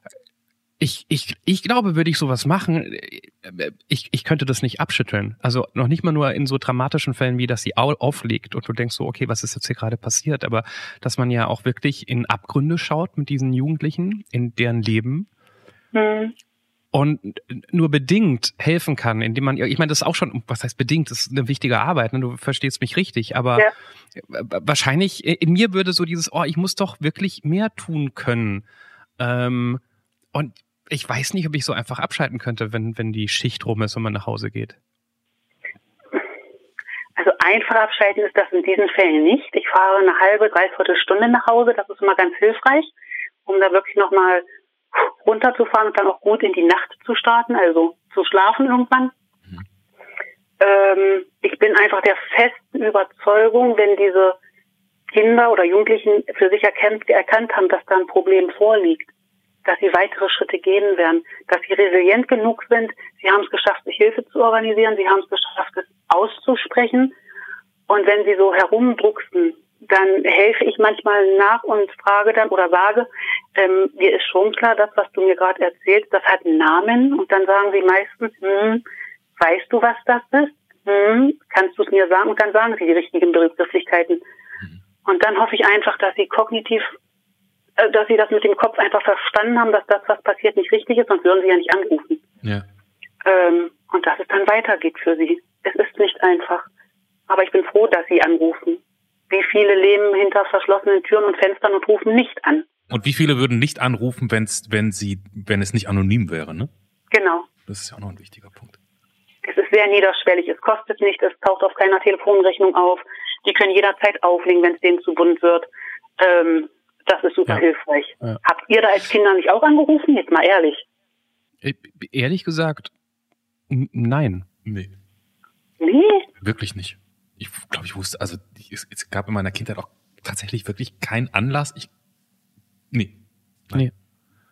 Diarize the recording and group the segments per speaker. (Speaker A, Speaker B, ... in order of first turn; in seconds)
Speaker A: 0.8-15.3, 16.9-28.6, 29.2-29.8, 30.3-34.8, 121.6-122.9, 123.7-124.5
Speaker B: 15.9-16.3, 37.1-42.9, 43.5-49.1, 50.6-54.4, 55.1-59.1, 59.6-67.1, 67.9-78.8, 79.4-84.2, 85.0-86.9, 87.8-92.2, 93.2-96.7, 97.3-102.7, 107.1-107.5, 109.4-115.7, 116.2-120.8, 125.8-126.3
Speaker C: 102.9-106.7, 107.7-108.8, 124.6-124.9, 126.4-131.9